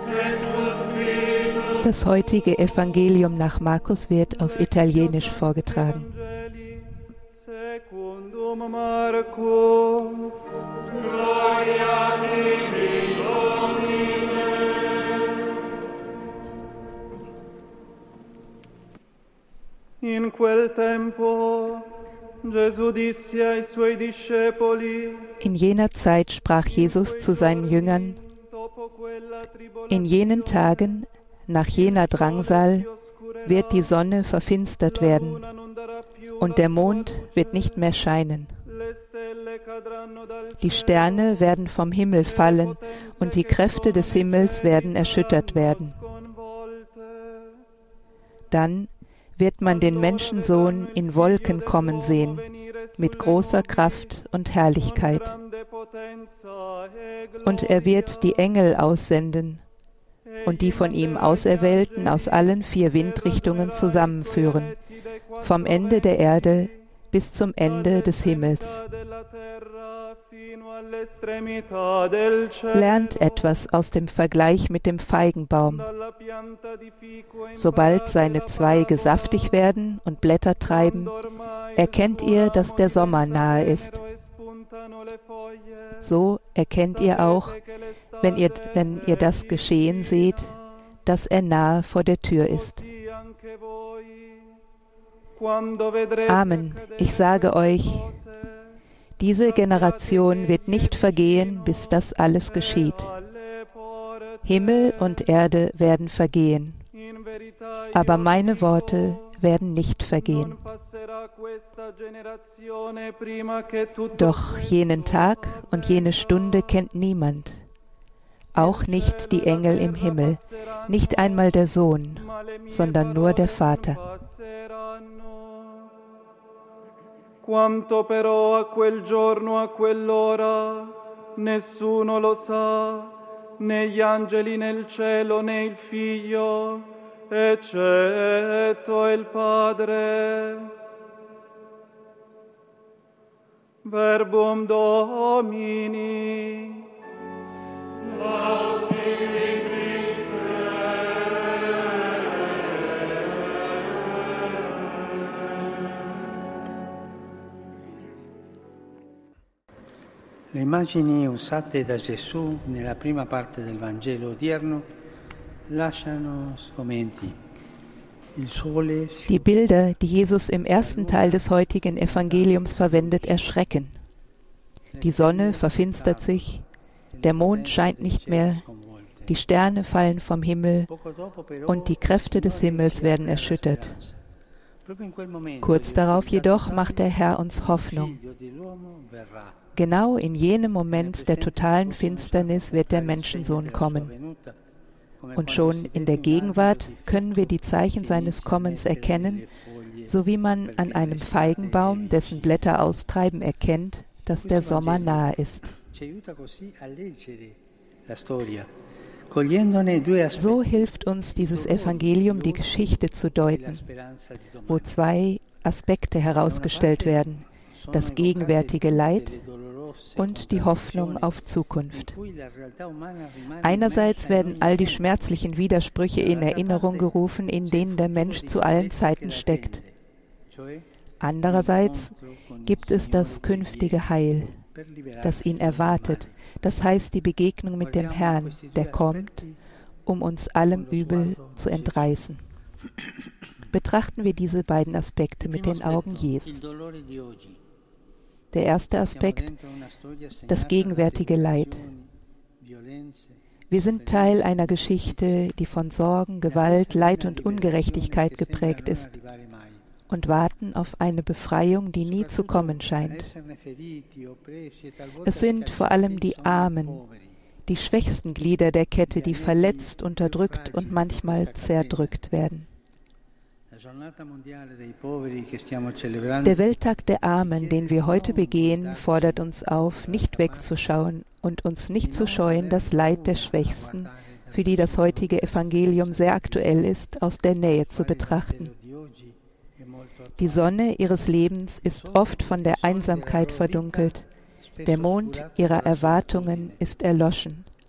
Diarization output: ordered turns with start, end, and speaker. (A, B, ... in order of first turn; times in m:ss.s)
0:00.5-0:01.0 A
0:01.8-0:06.2 B
0:07.6-0:10.4 A
0:11.2-0:13.6 A
0:20.0-0:21.9 A
0:22.4-0:25.3 A
0:25.4-0:28.2 B
0:29.9-0:32.9 B
0:32.1-0:32.7 A
0:33.4-0:35.5 B
0:36.4-0:38.6 B
0:39.2-0:40.1 A
0:40.6-0:46.0 B
0:43.2-0:44.1 A
0:44.6-0:45.2 A
0:46.2-0:47.5 A
0:48.5-0:55.4 B
0:49.9-0:52.3 A
0:53.3-0:53.7 A
0:55.4-0:57.0 A
0:57.4-0:59.6 B
1:00.4-1:04.8 B
1:00.5-1:02.2 A
1:05.4-1:08.9 B
1:07.9-1:08.5 A
1:09.4-1:12.7 A
1:12.7-1:15.9 B
1:16.4-1:16.6 A
1:17.6-1:21.1 B
1:18.2-1:19.0 A
1:21.8-1:24.0 B
1:22.4-1:23.8 A
1:24.4-1:25.2 A
1:26.0-1:27.6 B
1:28.2-1:32.9 B
1:33.5-1:34.4 A
1:35.4-1:37.3 A
1:36.2-1:38.2 B
1:39.2-1:43.2 B
1:40.2-1:41.1 A
1:44.4-1:46.9 B
1:47.9-1:50.6 B
1:51.2-1:54.5 A
1:54.1-1:57.6 B
1:58.5-2:04.0 B
1:58.8-2:00.1 A
2:03.0-2:03.7 A
2:04.4-2:05.9 A
2:07.4-2:20.8 A
2:23.8-2:26.9 A
2:28.4-2:28.8 A
2:40.5-2:44.9 C
2:45.7-2:47.4 C
2:48.4-2:49.5 C
2:49.3-2:54.0 B
2:50.8-2:53.4 C
2:55.0-2:56.5 C
2:55.0-2:56.6 B
2:57.1-2:59.3 C
2:57.2-2:58.6 B
2:59.3-3:00.9 B
3:00.9-3:04.2 C
3:01.7-3:04.0 B
3:04.8-3:09.6 C
3:05.6-3:08.2 B
3:09.8-3:14.1 B
3:10.9-3:14.6 C
3:15.2-3:22.8 C
3:15.4-3:19.4 B
3:20.1-3:25.8 B
3:24.4-3:28.7 C
3:29.3-3:34.9 C
3:30.3-3:33.8 B
3:34.7-3:39.4 B
3:36.3-3:41.4 C
3:40.2-3:42.1 B
3:41.9-3:45.2 C
3:43.6-3:49.8 B
3:46.2-3:47.1 C
3:47.6-3:50.0 C
3:50.5-3:50.9 C
3:51.2-3:52.1 B
3:51.4-3:54.2 C
3:52.6-3:54.6 B
3:54.7-3:56.6 C
3:55.2-3:59.4 B
3:57.8-3:59.6 C
4:00.0-4:02.4 B
4:00.6-4:02.2 C
4:03.7-4:06.5 B
4:05.4-4:07.6 C
4:08.5-4:09.5 B
4:09.1-4:13.4 C
4:10.5-4:11.9 B
4:13.7-4:19.1 B
4:13.9-4:15.4 C
4:16.4-4:19.8 C
4:20.1-4:23.3 B
4:22.0-4:27.4 C
4:25.2-4:27.0 B
4:27.7-4:32.7 B
4:29.0-4:32.2 C
4:33.7-4:36.7 C
4:36.4-4:48.7 B
4:37.2-4:40.8 C
4:42.0-4:46.9 C
4:47.8-4:50.8 C
4:50.4-4:54.3 B
4:51.8-4:56.9 C
4:54.8-4:57.7 B